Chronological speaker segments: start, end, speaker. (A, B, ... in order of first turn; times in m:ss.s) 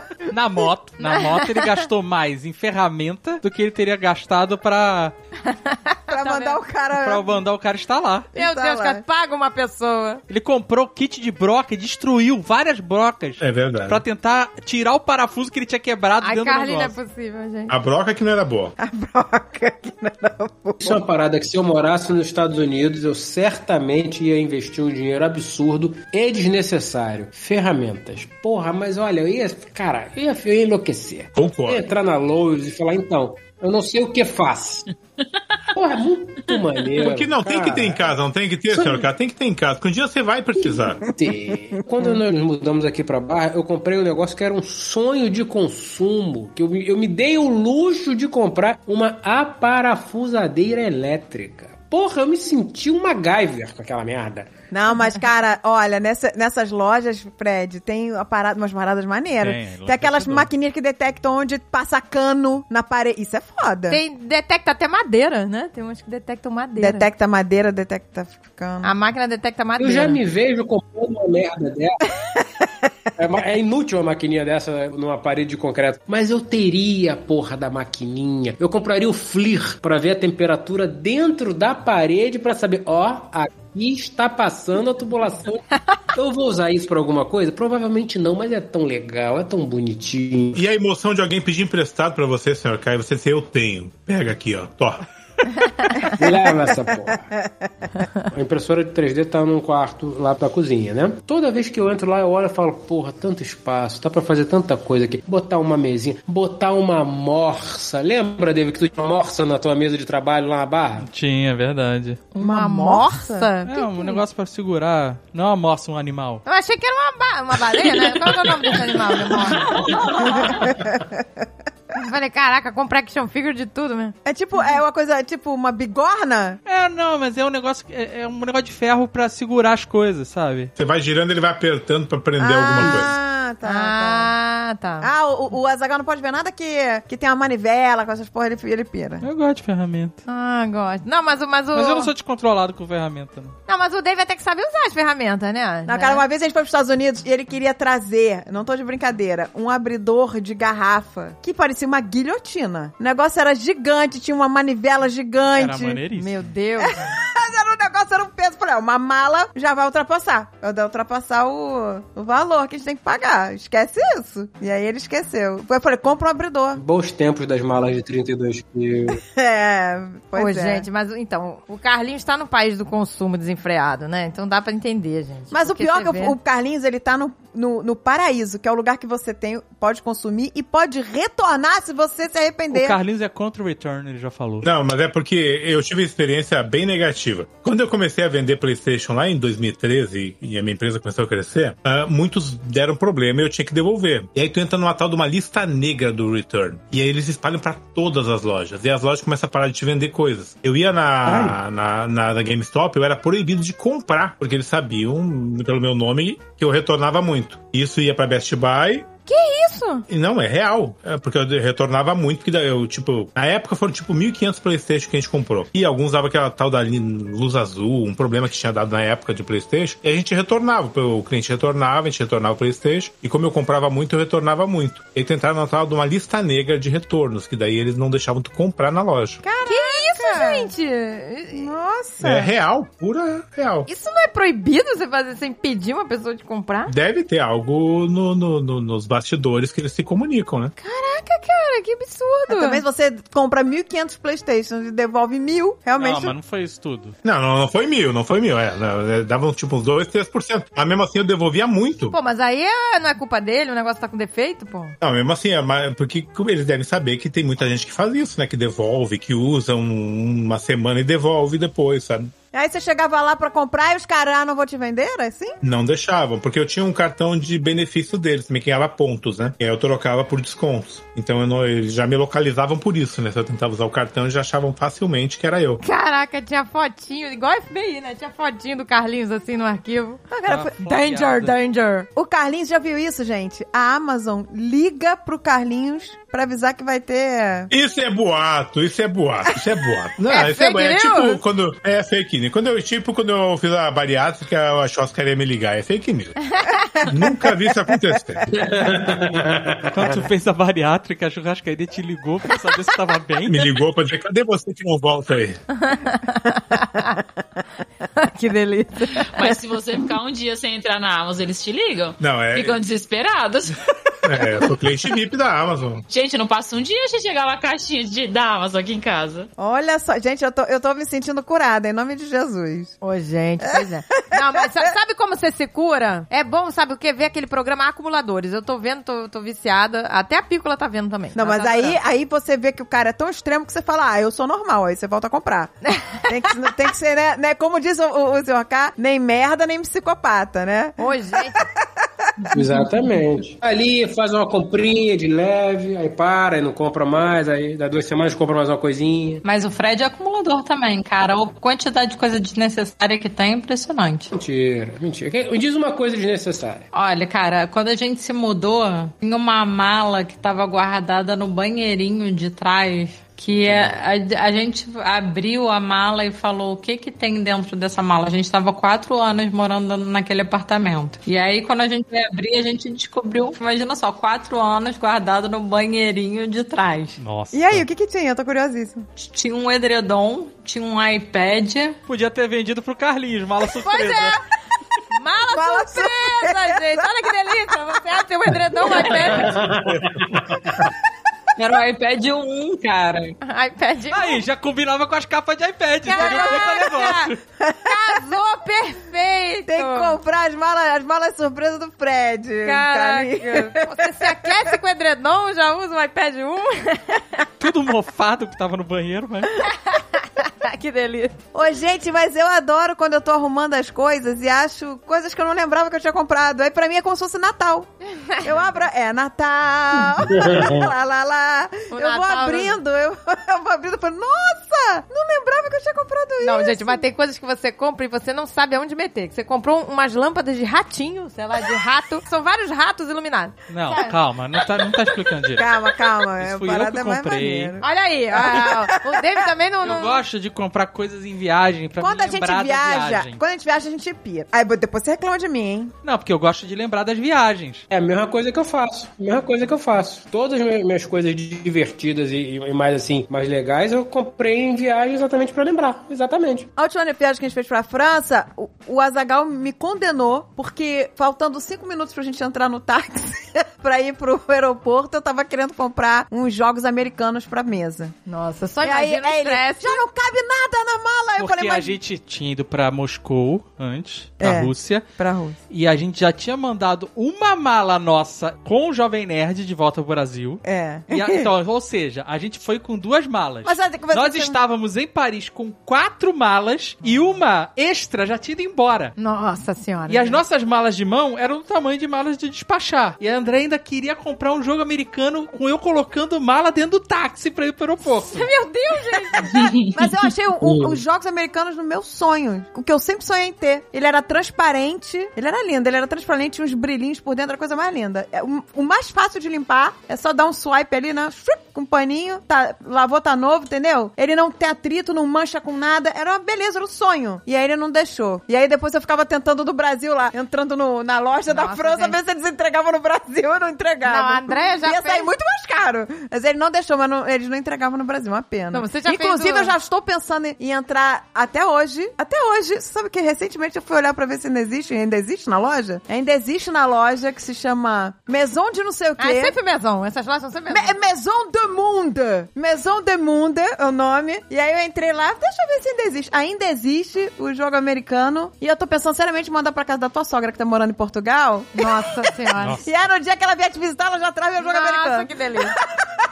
0:00.3-0:05.2 A
0:01.0-0:01.7 B
0:05.4-0:06.6 B
0:06.1-0:07.2 C
0:06.9-0:08.3 A
0:08.4-0:09.0 C
0:08.4-0:10.2 B
0:10.3-0:17.0 A
0:13.4-0:14.0 D
0:16.2-0:17.8 B
0:17.7-0:18.8 D
0:18.8-0:21.0 C
0:20.8-0:34.9 E
0:31.4-0:31.8 D
0:35.7-0:38.1 E
0:37.0-0:41.0 D
0:41.1-0:54.5 E
0:54.7-1:04.0 C
0:59.4-1:00.5 A
1:03.9-1:07.1 B
1:06.8-1:08.9 C
1:08.8-1:10.2 B
1:09.8-1:12.0 E
1:13.2-1:25.6 E
1:26.1-1:30.6 E
1:30.6-1:35.0 D
1:36.2-1:37.3 E
1:38.3-1:51.1 E
1:51.0-1:52.2 A
1:52.4-1:54.2 B
1:52.4-1:53.5 C
1:53.7-1:56.4 A
1:56.4-1:59.8 B
1:59.6-2:00.6 F
2:00.3-2:01.2 C
2:01.9-2:04.2 B
2:04.2-2:06.6 C
2:06.7-2:10.7 A
2:10.8-2:13.1 D
2:12.4-2:14.3 C
2:13.6-2:15.1 B
2:15.0-2:19.2 C
2:19.2-2:20.2 A
2:20.3-2:22.1 B
2:21.7-2:23.6 A
2:23.7-2:26.2 B
2:25.9-2:36.0 C
2:35.6-2:36.5 A
2:36.1-2:37.1 B
2:36.9-2:46.8 C
2:46.8-2:49.2 E
2:49.2-2:50.8 C
2:50.4-2:56.4 B
2:55.5-3:03.0 C
3:02.7-3:04.7 A
3:04.6-3:29.1 D
3:21.2-3:21.6 E
3:29.3-3:30.1 B
3:30.1-3:49.4 D
3:49.4-3:50.7 C
3:49.6-3:51.7 B
3:51.5-3:52.5 C
3:52.2-3:53.9 D
3:53.9-3:56.9 B
3:56.9-4:00.7 D
4:00.8-4:02.8 B
4:02.5-4:06.3 C
4:06.0-4:07.2 A
4:07.2-4:12.2 D
4:12.1-4:15.0 B
4:15.0-4:22.3 D
4:22.5-4:25.6 C
4:25.6-4:35.8 D
4:35.8-4:40.2 B
4:40.3-4:40.7 C
4:40.5-4:41.5 A
4:40.8-4:42.1 B
4:42.2-4:47.7 C
4:47.7-4:56.5 D
4:50.3-4:51.4 B
4:57.0-4:58.5 D
4:57.1-4:57.4 C
4:58.5-5:00.1 E
4:59.9-5:03.7 A
5:03.4-5:05.6 D
5:05.8-5:07.2 B
5:08.2-5:09.4 B
5:09.1-5:13.8 F
5:12.2-5:12.8 D
5:14.2-5:16.0 D
5:16.1-5:19.5 F
5:19.6-5:23.0 C
5:23.0-5:32.0 B
5:31.4-5:35.7 C
5:35.9-5:36.2 B
5:36.3-5:41.0 C
5:41.0-5:41.6 B
5:42.5-5:49.4 E
5:49.4-5:54.3 G
5:54.3-5:56.9 E
5:56.9-6:17.2 G
6:17.2-6:17.9 A
6:17.5-6:19.1 C
6:19.2-6:22.0 G
6:22.1-6:24.4 A
6:23.8-6:24.4 B
6:25.1-6:29.7 B
6:25.5-6:27.0 C
6:29.4-6:30.8 E
6:29.8-6:30.8 D
6:31.6-6:33.4 G
6:33.4-6:34.4 B
6:34.1-6:37.4 A
6:36.1-6:40.2 B
6:36.1-6:36.9 C
6:37.6-6:37.9 C
6:39.7-6:44.6 C
6:42.6-6:47.4 B
6:47.6-6:49.6 A
6:49.6-6:51.4 B
6:51.5-7:07.0 C
6:58.2-6:58.5 B
7:00.3-7:00.8 E
7:01.9-7:02.8 B
7:06.4-7:14.2 B
7:13.7-7:15.7 A
7:15.6-7:19.4 C
7:16.2-7:17.8 A
7:17.8-7:20.2 B
7:19.8-7:23.4 A
7:22.0-7:25.9 C
7:26.0-7:27.8 A
7:27.9-7:36.7 E
7:36.8-7:48.2 C
7:48.3-7:50.0 B
7:48.8-7:51.9 C
7:51.4-7:55.1 A
7:54.4-7:55.6 C
7:55.7-8:09.2 A
8:00.6-8:01.5 C
8:03.6-8:04.6 C
8:09.2-8:10.4 B
8:10.1-8:18.5 A
8:18.2-8:19.8 B
8:19.6-8:19.9 F
8:19.8-8:59.6 C
8:20.6-8:21.0 E
8:41.5-8:42.2 B
8:44.0-8:45.3 B
8:48.7-8:49.7 B
8:59.2-9:01.0 B
9:00.7-9:12.0 C
9:11.8-9:12.8 B
9:12.8-9:15.7 C
9:14.6-9:15.8 B